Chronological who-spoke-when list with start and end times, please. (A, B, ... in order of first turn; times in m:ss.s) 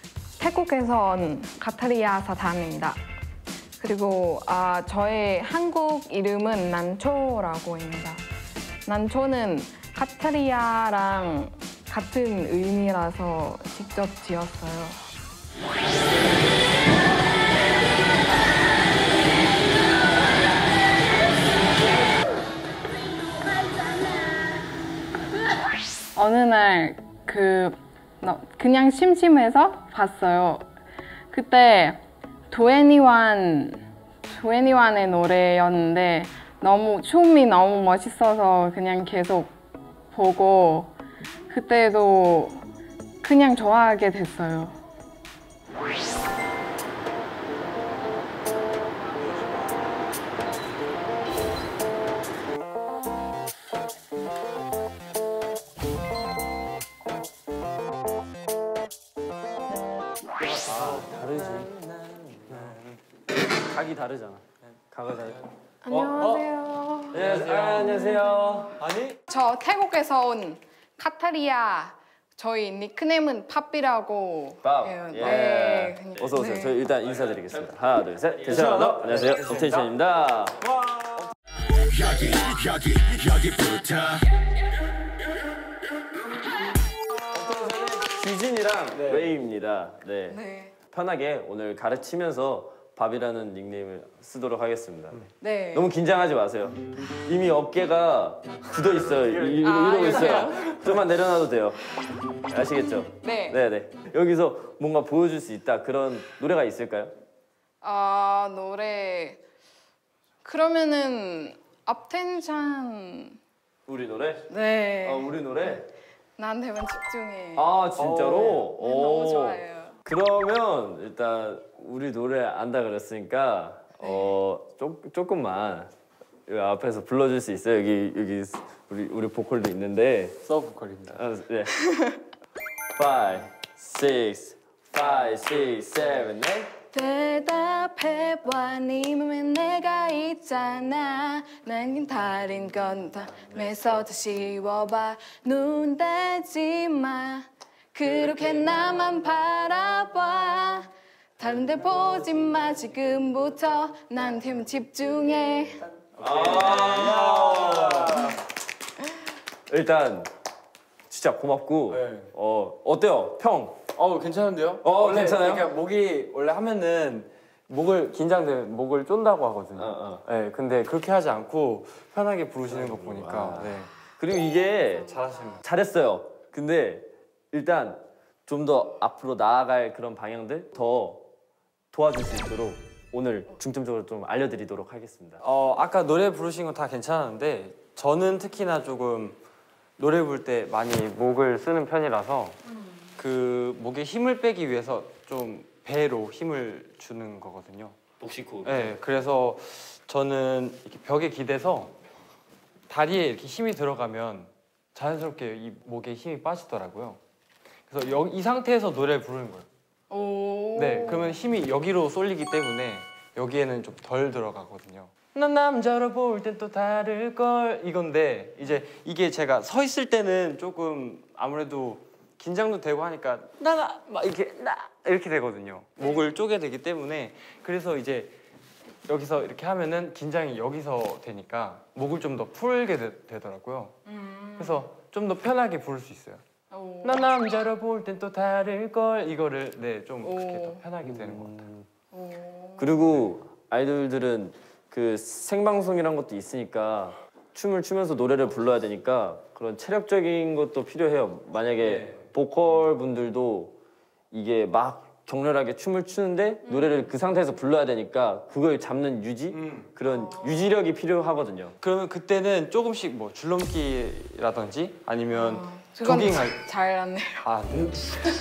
0:00.4-0:03.0 A
0:03.8-0:08.2 A
0:08.9-0:15.0 A
0:26.2-0:30.6 A
0:31.3-0:39.6 A
0:40.1-0:40.9 A
0:41.5-0:42.6 A
0:43.2-0:44.8 A
1:00.4-1:01.7 B
1:00.4-1:03.0 C
1:02.5-1:02.8 B
1:03.6-1:06.4 B
1:05.8-1:07.2 A
1:06.2-1:06.4 C
1:07.1-1:08.0 C
1:07.1-1:08.8 B
1:07.8-1:08.7 A
1:08.8-1:09.2 C
1:09.3-1:16.8 A
1:14.6-1:20.6 B
1:18.4-1:19.9 C
1:20.6-1:21.3 C
1:23.2-1:24.2 C
1:27.3-1:30.4 B
1:28.9-1:29.3 C
1:30.3-1:30.7 A
1:30.9-1:47.1 B
1:35.4-1:35.9 A
1:39.4-1:40.8 C
1:39.6-1:40.8 A
1:43.2-1:43.6 A
1:47.8-1:49.4 A
1:50.4-1:53.4 A
1:53.9-1:54.5 B
1:54.5-1:55.4 A
1:55.0-1:55.9 B
1:56.4-1:57.7 A
1:57.6-2:05.9 B
1:58.0-1:58.7 C
1:58.6-2:00.0 A
2:04.0-2:04.4 A
2:06.5-2:10.4 B
2:10.4-2:11.2 C
2:11.1-2:11.8 B
2:11.8-2:12.2 A
2:13.0-2:16.7 B
2:16.9-2:35.8 A
2:28.0-2:28.7 C
2:36.0-2:38.3 C
2:36.2-2:38.3 B
2:39.7-2:40.3 B
2:41.1-2:43.8 B
2:41.9-2:42.3 C
2:44.0-2:53.9 C
2:44.8-2:45.7 B
2:49.8-2:50.2 B
2:52.7-3:01.3 B
2:55.0-2:55.6 C
3:01.9-3:05.4 B
3:05.4-3:09.4 C
3:10.0-3:12.6 C
3:13.2-3:18.0 C
3:18.2-3:18.9 B
3:18.6-3:22.0 C
3:22.9-3:27.2 C
3:27.9-3:29.7 C
3:30.1-3:31.4 A
3:30.8-3:48.4 C
3:49.1-3:54.0 C
3:54.1-3:54.9 A
3:54.6-3:56.4 C
3:56.7-3:57.2 A
3:57.0-4:01.7 C
4:00.2-4:00.8 A
4:01.0-4:01.8 B
4:02.1-4:03.1 A
4:02.8-4:13.8 B
4:11.8-4:12.2 C
4:14.3-4:21.8 B
4:16.6-4:17.1 A
4:19.5-4:19.9 C
4:20.0-4:20.7 A
4:21.8-4:26.6 C
4:25.3-4:27.5 A
4:27.4-4:28.2 C